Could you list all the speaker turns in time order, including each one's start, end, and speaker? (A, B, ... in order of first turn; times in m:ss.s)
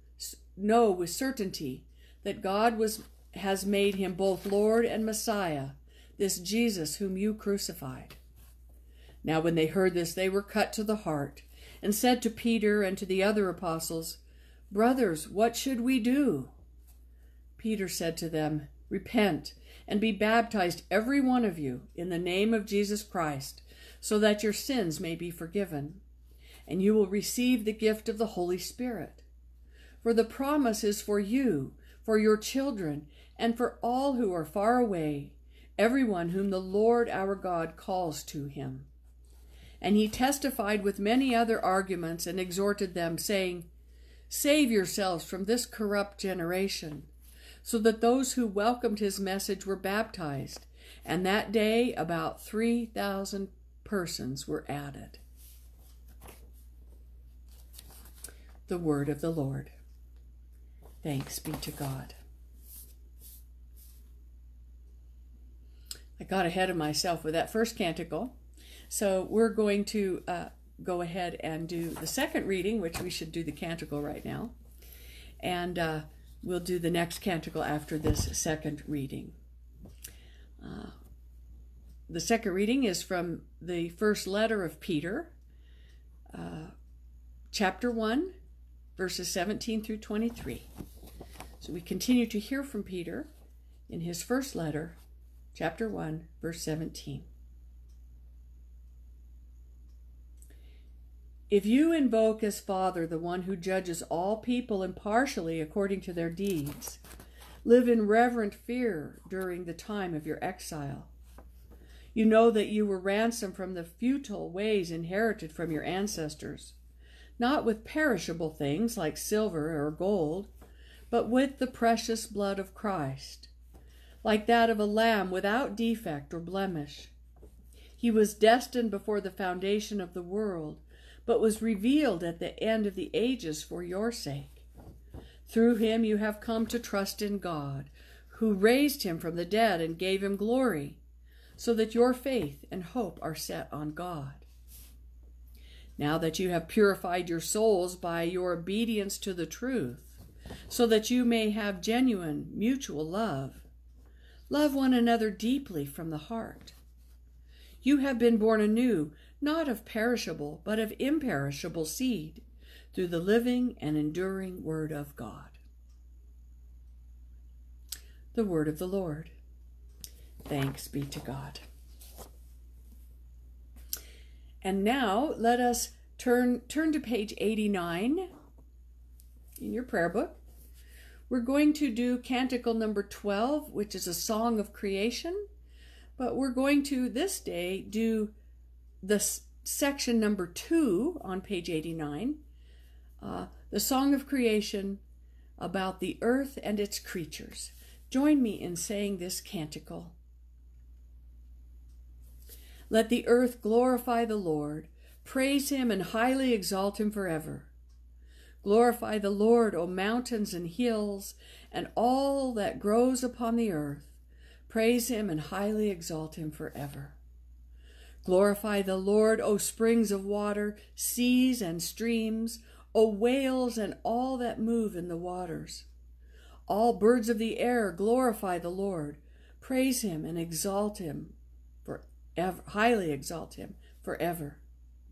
0:00.2-0:08.2 A
0:09.2-0:16.5 A
0:17.6-0:26.0 A
0:26.6-0:29.2 A
0:30.0-0:38.9 A
0:39.8-0:43.7 A
0:44.3-0:47.1 A
0:47.6-0:55.2 A
0:58.7-0:59.7 A
1:01.0-1:02.1 A
1:06.2-1:08.4 A
1:08.9-1:14.5 A
1:15.4-1:19.4 A
1:20.6-1:21.0 A
1:22.1-1:25.3 A
1:26.3-1:26.7 A
1:27.5-1:28.3 A
1:29.0-1:30.7 A
1:31.6-1:33.3 A
1:33.9-1:35.0 A
1:35.5-1:37.3 A
1:41.5-1:47.0 A
1:47.6-1:51.1 A
1:52.1-1:56.7 A
1:57.4-2:00.5 A
2:01.1-2:03.5 A
2:04.2-2:07.1 A
2:08.0-2:14.6 A
2:15.5-2:21.0 A
2:21.6-2:24.4 A
2:26.0-2:33.6 A
2:34.5-2:36.7 A
2:37.8-2:45.6 A
2:48.3-2:49.3 A
2:50.4-2:51.6 A
2:54.6-2:58.3 A
2:59.6-3:00.4 A
3:01.3-3:05.4 A
3:06.2-3:08.3 A
3:09.0-3:12.4 A
3:13.2-3:15.0 A
3:15.6-3:20.2 A
3:22.9-3:27.7 A
3:28.6-3:34.1 A
3:34.7-3:37.2 A
3:38.2-3:45.9 A
3:46.7-3:54.6 A